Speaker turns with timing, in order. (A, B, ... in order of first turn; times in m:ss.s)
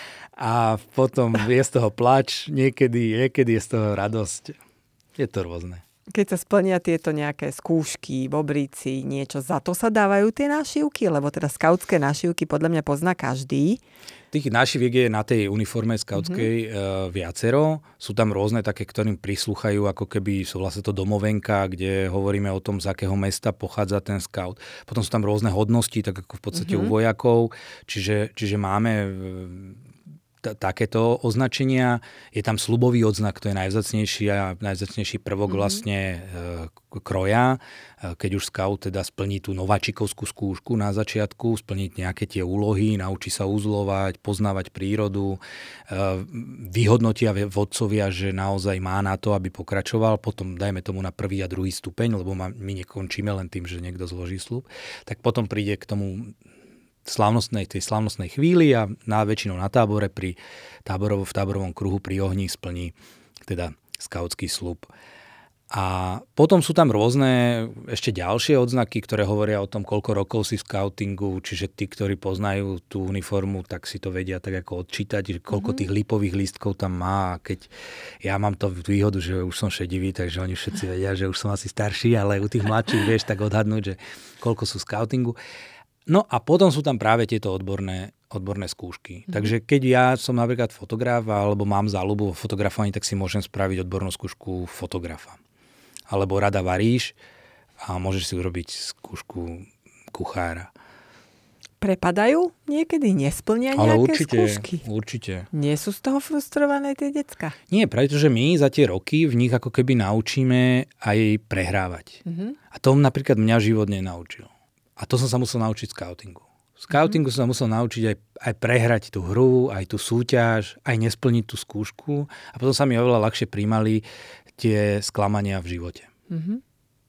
0:00.4-0:04.6 A
0:05.2-0:05.8 A
0:06.1-0:13.8 B
0:14.3-0:29.8 A
0:16.2-0:16.4 B
0:26.6-0:26.9 B
0:30.4-0:56.3 A
0:57.0-1:02.9 A
1:03.4-1:04.9 A
1:05.7-1:17.7 A
1:18.2-1:25.4 A
1:26.0-1:35.4 A
1:36.1-1:37.1 A
1:37.8-1:40.7 A
1:41.8-1:44.8 B
1:43.8-1:45.5 A
1:45.5-1:47.5 B
1:47.7-2:04.0 A
1:52.2-1:52.6 B
1:56.9-1:57.2 B
2:04.6-2:06.1 A
2:06.3-2:06.6 B